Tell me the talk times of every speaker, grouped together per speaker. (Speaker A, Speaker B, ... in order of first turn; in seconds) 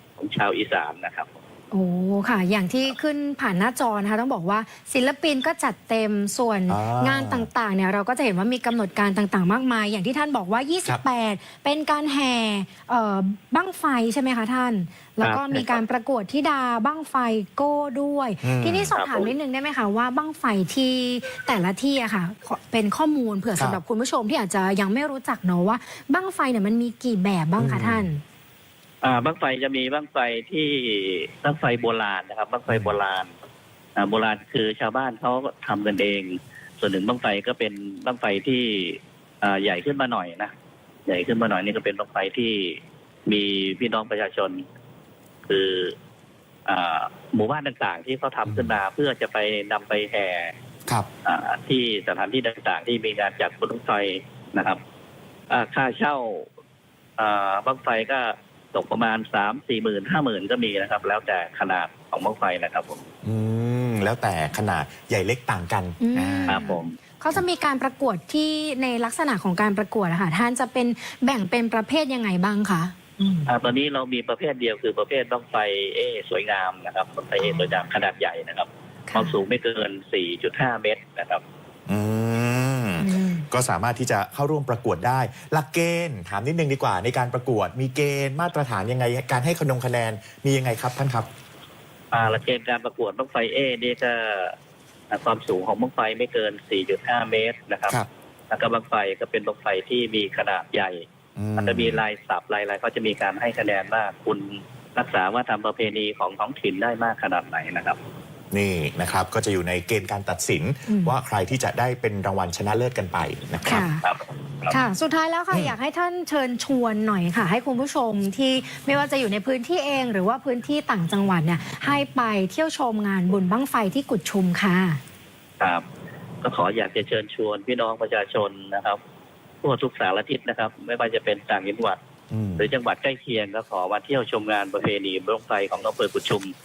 Speaker A: 0.2-1.3, 15.2-15.8, 18.9-19.3, 29.0-33.3, 34.0-40.5, 41.1-44.6, 45.5-45.9, 46.6-50.5, 51.2-54.8, 55.5-56.5, 57.2-63.0, 66.5-67.0, 73.5-81.4, 92.1-94.5, 95.1-98.0, 98.5-101.0, 101.6-108.0, 114.0-114.8, 126.4-129.0, 129.6-132.0, 132.6-136.5
Speaker B: 1.7-28.2, 66.0-73.5, 77.4-77.8, 79.1-79.4, 83.0-83.5, 110.9-111.2, 113.7-114.0, 114.7-125.0
Speaker C: 6.7-7.5, 18.4-18.9, 27.6-28.1, 32.7-32.9, 48.4-48.8, 63.2-66.7, 81.9-91.3, 101.4-102.0, 108.5-113.8, 132.3-132.7